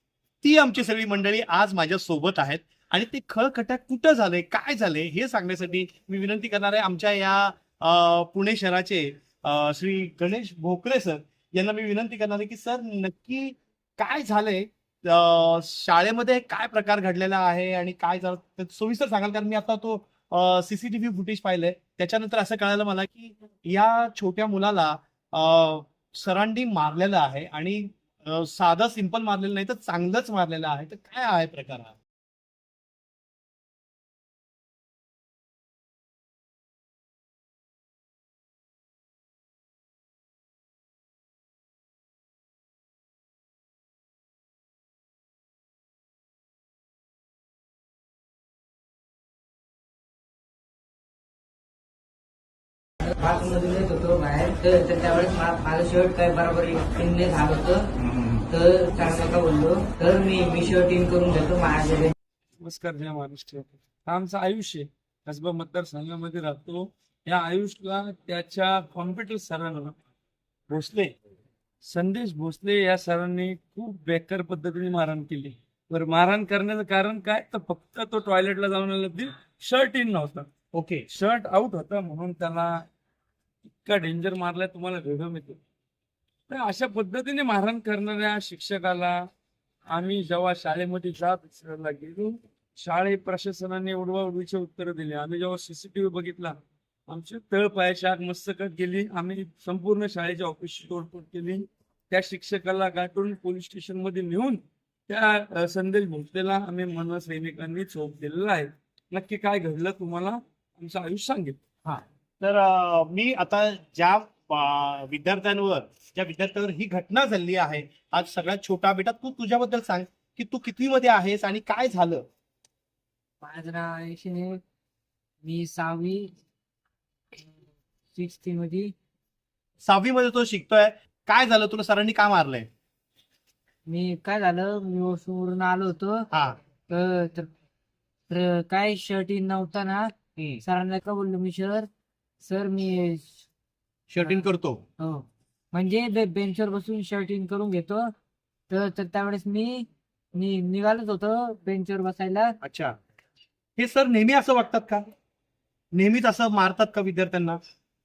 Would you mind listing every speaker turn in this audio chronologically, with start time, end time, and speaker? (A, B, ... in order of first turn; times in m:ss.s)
0:00.4-0:32.0 A
0:53.1-0:57.9 B
0:58.5-1:02.1 B
1:02.6-1:10.0 C
1:10.7-1:11.1 A
1:11.8-1:20.5 C
1:20.7-1:21.1 A
1:21.1-1:22.8 C
1:23.8-1:25.6 C
1:26.5-1:29.3 C
1:29.9-1:51.6 C
1:51.8-2:02.2 A
2:03.4-2:04.6 B
2:05.4-2:06.3 B
2:08.1-2:08.9 B
2:09.8-2:12.7 A
2:13.9-2:16.3 B
2:16.3-2:16.6 A
2:16.9-2:17.5 B
2:18.3-2:20.1 B
2:20.6-2:21.9 B
2:22.4-2:23.4 B
2:24.1-2:24.8 A
2:25.0-2:28.1 B
2:28.7-2:32.5 B
2:32.6-2:33.0 A
2:33.8-2:35.0 A
2:35.9-2:37.6 A